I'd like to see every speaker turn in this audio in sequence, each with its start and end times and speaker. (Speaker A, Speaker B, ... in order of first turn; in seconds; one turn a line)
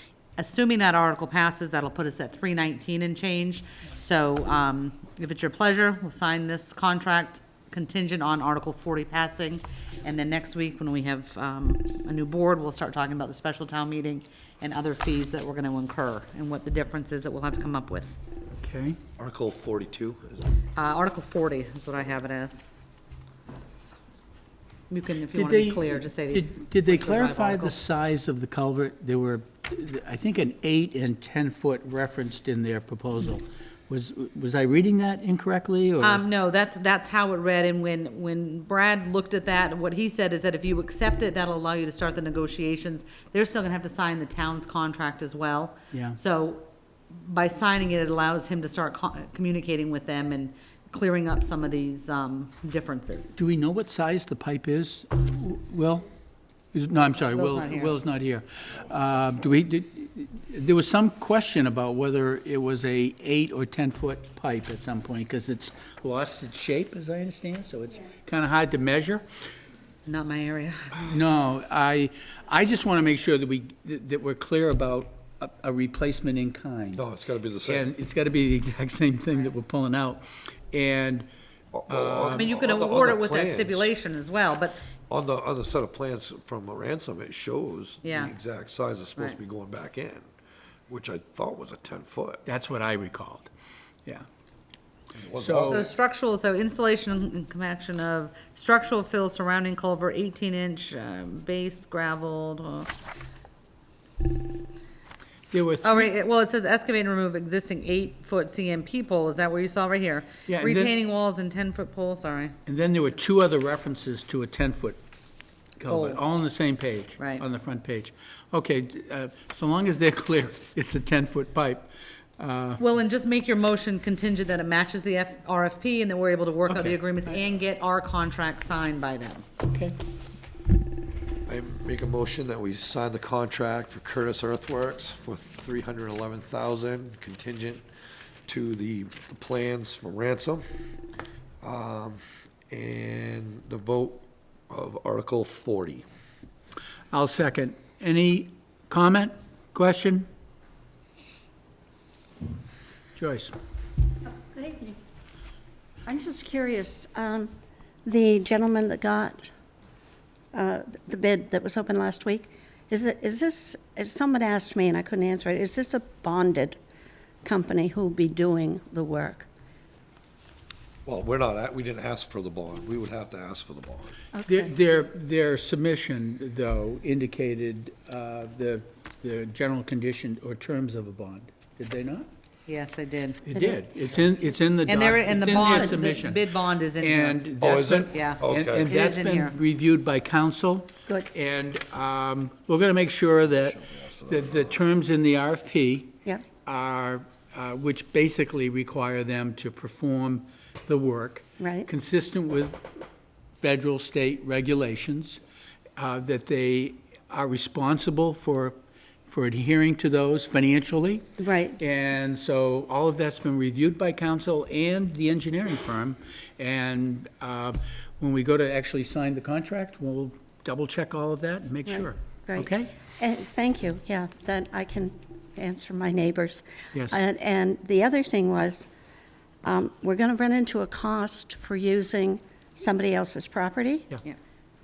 Speaker A: 0.4-18.2
Speaker B: 18.6-19.0
Speaker C: 19.2-20.4
Speaker A: 20.8-22.6
Speaker A: 24.9-27.8
Speaker B: 25.3-36.2
Speaker A: 36.0-53.4
Speaker B: 45.9-46.2
Speaker B: 53.4-56.1
Speaker B: 56.7-69.2
Speaker A: 57.2-57.9
Speaker A: 70.0-71.2
Speaker B: 71.0-77.0
Speaker C: 77.0-77.9
Speaker B: 77.7-81.3
Speaker C: 81.7-83.9
Speaker B: 81.9-82.5
Speaker A: 82.4-84.8
Speaker C: 85.1-90.3
Speaker A: 88.0-88.3
Speaker C: 90.9-92.4
Speaker B: 92.5-93.5
Speaker C: 95.1-95.9
Speaker B: 95.4-95.8
Speaker A: 95.7-102.9
Speaker B: 105.5-106.1
Speaker A: 105.8-112.5
Speaker B: 110.5-110.9
Speaker B: 112.7-115.0
Speaker B: 115.8-122.8
Speaker A: 115.9-116.2
Speaker A: 117.2-117.4
Speaker A: 122.8-129.4
Speaker B: 126.7-127.0
Speaker B: 129.7-129.9
Speaker C: 131.5-137.8
Speaker C: 138.5-140.6
Speaker C: 141.6-146.0
Speaker B: 147.1-150.3
Speaker B: 153.2-153.5
Speaker D: 154.3-154.9
Speaker D: 156.1-157.5
Speaker D: 158.0-159.5
Speaker D: 160.5-166.8
Speaker D: 167.4-169.5
Speaker C: 171.0-174.2
Speaker D: 174.3-174.7
Speaker B: 174.5-182.3
Speaker A: 182.7-183.4
Speaker B: 183.4-186.4
Speaker D: 183.5-183.8
Speaker A: 184.8-187.4
Speaker B: 187.0-196.1
Speaker C: 187.6-188.9
Speaker A: 188.1-189.6
Speaker C: 193.7-194.7
Speaker B: 196.7-202.8
Speaker D: 201.6-201.9
Speaker B: 203.6-205.4
Speaker B: 206.0-208.8
Speaker B: 209.3-211.2
Speaker D: 211.4-211.8
Speaker B: 211.8-222.9
Speaker D: 221.8-228.9
Speaker B: 226.9-227.2
Speaker D: 229.6-234.1